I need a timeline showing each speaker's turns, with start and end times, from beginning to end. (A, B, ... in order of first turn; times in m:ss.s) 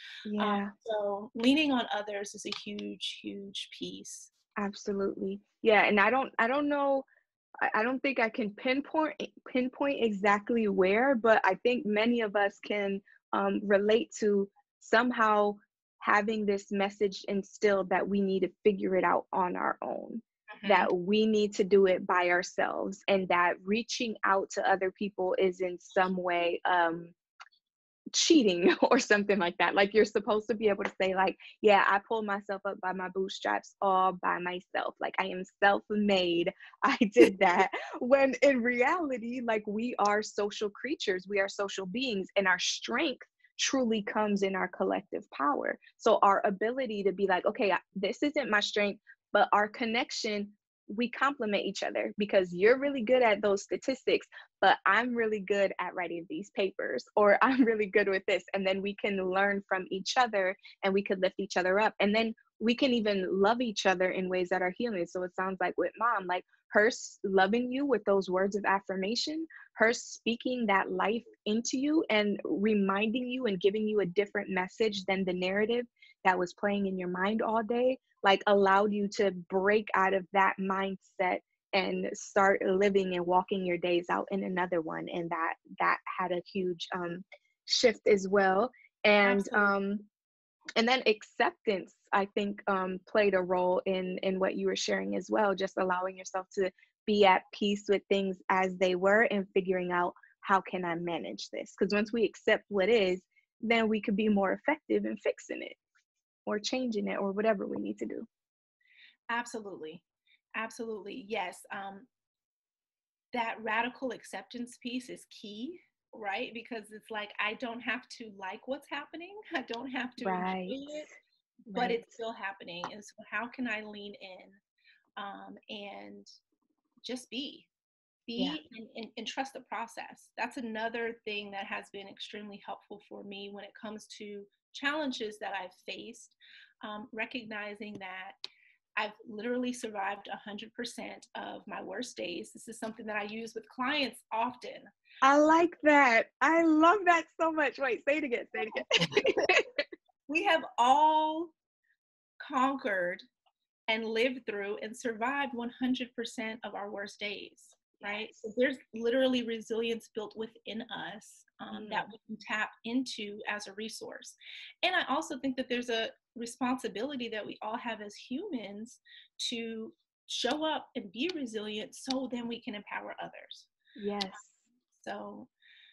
0:00.2-0:00.7 A
0:00.4-0:04.3 B
0:04.6-0:07.1 A
0:07.6-0:27.1 A
0:20.5-0:20.9 B
0:28.1-1:30.1 A
1:29.2-1:29.8 B
1:30.8-1:45.8 A
1:46.5-1:48.3 A
1:49.3-1:50.0 B
1:50.6-1:52.1 B
1:53.3-2:01.1 B
2:00.2-2:01.0 A
2:01.7-2:02.2 A
2:01.7-2:04.6 B
2:05.2-2:06.3 B
2:07.0-2:07.7 B
2:08.3-2:18.4 B
2:19.0-2:24.9 B
2:25.2-2:29.8 A
2:29.0-2:29.5 B
2:30.3-2:31.5 B
2:32.4-2:33.2 B
2:33.9-2:53.7 B
2:38.1-2:38.5 A
2:41.7-2:42.1 A
2:54.0-2:54.6 A
2:55.0-2:55.5 B